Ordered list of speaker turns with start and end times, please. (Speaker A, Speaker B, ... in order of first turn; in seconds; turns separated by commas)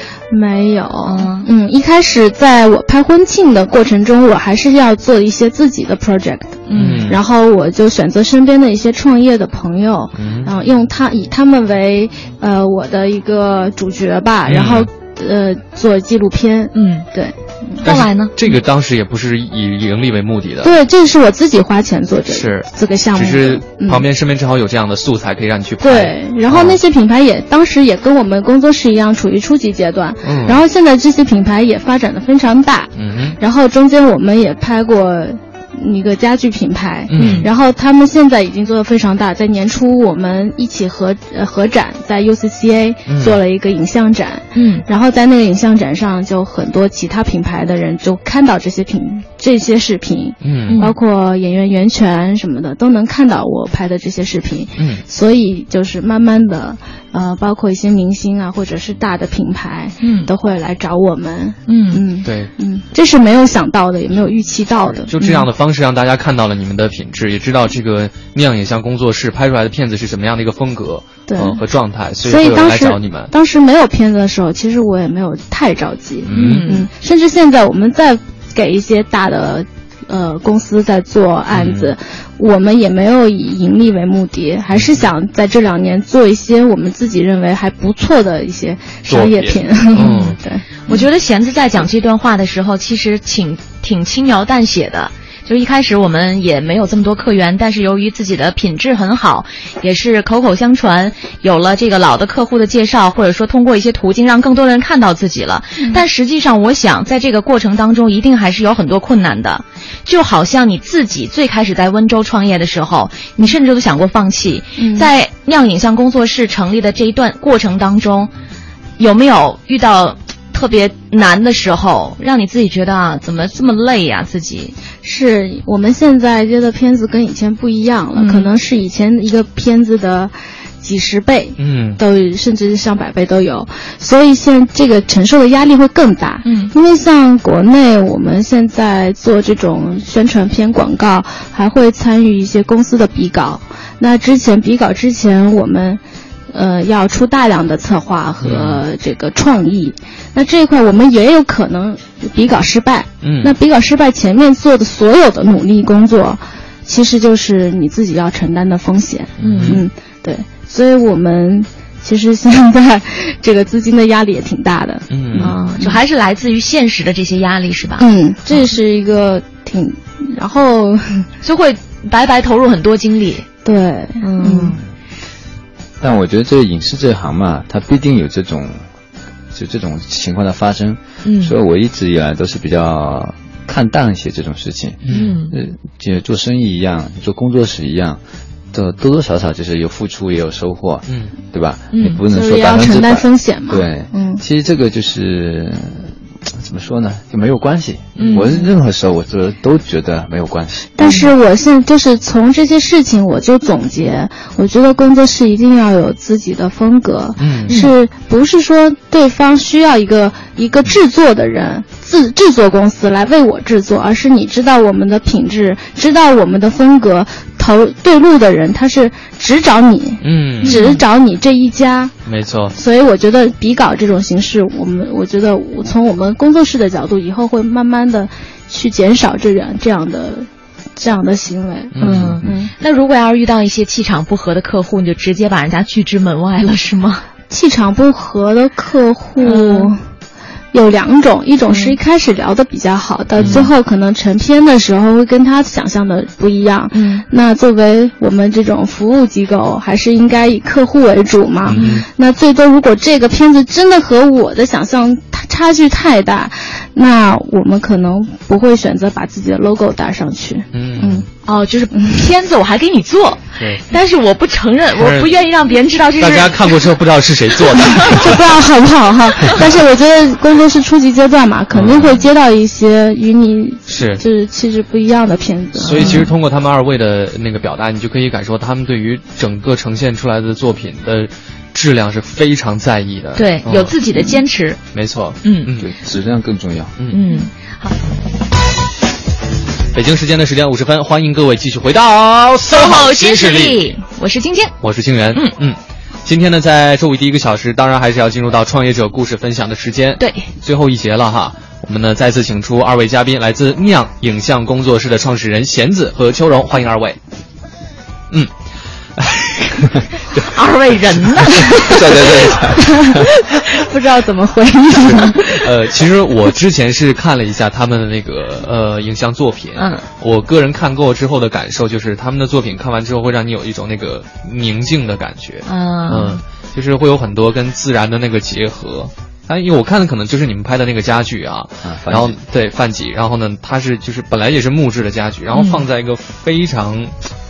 Speaker A: 0.3-17.9, Speaker B: 1.0-1.5, Speaker B: 6.7-7.1, Speaker C: 6.7-7.2, Speaker C: 10.2-10.5, Speaker C: 14.4-14.9, Speaker B: 16.7-17.1, Speaker B: 17.8-18.3, Speaker C: 17.8-20.7, Speaker A: 20.6-24.0, Speaker C: 22.3-26.8, Speaker A: 25.8-65.1, Speaker C: 30.2-30.6, Speaker C: 33.0-33.4, Speaker C: 37.1-37.5, Speaker B: 37.1-37.5, Speaker C: 43.1-43.4, Speaker B: 44.5-44.8, Speaker C: 50.4-50.8, Speaker B: 50.7-50.9, Speaker C: 54.8-55.0, Speaker B: 60.0-60.3, Speaker B: 61.7-62.0, Speaker C: 62.2-62.5, Speaker C: 64.8-73.3, Speaker B: 65.2-65.5, Speaker A: 71.3-71.6, Speaker A: 72.2-91.0, Speaker C: 76.2-76.7, Speaker B: 76.3-76.9, Speaker C: 81.5-81.9, Speaker C: 84.7-85.1, Speaker C: 89.1-90.4, Speaker B: 90.9-118.3, Speaker A: 114.8-115.1, Speaker B: 119.0-124.7, Speaker A: 125.0-146.0, Speaker B: 128.2-128.5, Speaker C: 131.6-132.0, Speaker B: 136.4-136.7, Speaker A: 146.5-166.0, Speaker C: 148.4-148.8, Speaker C: 153.2-153.5, Speaker C: 159.4-159.8, Speaker B: 159.4-159.8, Speaker C: 165.1-165.5, Speaker B: 165.4-168.0, Speaker A: 168.0-171.3, Speaker B: 171.4-173.5, Speaker A: 173.6-174.8, Speaker B: 174.2-174.8, Speaker D: 176.0-178.8, Speaker D: 179.5-188.2, Speaker B: 181.2-181.5, Speaker C: 185.0-185.4, Speaker B: 185.1-185.5, Speaker D: 188.7-200.9, Speaker C: 191.1-191.3, Speaker B: 191.9-192.2, Speaker A: 192.3-194.4, Speaker B: 198.2-198.6, Speaker A: 201.0-222.1, Speaker B: 201.0-201.3, Speaker C: 207.4-207.9, Speaker B: 207.7-207.9, Speaker C: 220.2-221.0, Speaker B: 220.6-221.0, Speaker C: 222.2-222.8, Speaker A: 222.7-232.7, Speaker C: 231.9-232.5, Speaker B: 232.0-237.2, Speaker A: 237.5-240.0, Speaker B: 239.4-239.9, Speaker A: 240.7-261.3, Speaker B: 241.7-242.0, Speaker C: 243.4-243.7, Speaker B: 243.4-243.7, Speaker B: 246.9-247.2, Speaker C: 251.6-252.0, Speaker B: 251.7-252.0, Speaker C: 260.7-261.2, Speaker B: 261.4-266.8, Speaker A: 261.9-262.3, Speaker C: 263.6-263.8, Speaker C: 264.9-265.4, Speaker C: 266.2-268.6, Speaker B: 267.9-268.2, Speaker A: 268.0-276.3, Speaker C: 271.7-272.2, Speaker C: 273.9-274.2, Speaker C: 275.8-283.9, Speaker B: 275.9-276.3, Speaker B: 283.4-284.8, Speaker C: 284.9-285.9, Speaker B: 285.4-285.7, Speaker D: 285.8-286.9, Speaker B: 287.1-287.9, Speaker C: 289.9-293.9, Speaker B: 292.7-294.7, Speaker C: 294.8-307.2, Speaker B: 300.2-300.4, Speaker C: 309.2-310.5, Speaker B: 310.4-312.5, Speaker D: 311.8-313.3, Speaker A: 312.7-315.7, Speaker C: 315.0-337.2, Speaker B: 319.8-320.0, Speaker B: 325.6-326.4, Speaker D: 331.8-332.3, Speaker B: 335.5-335.8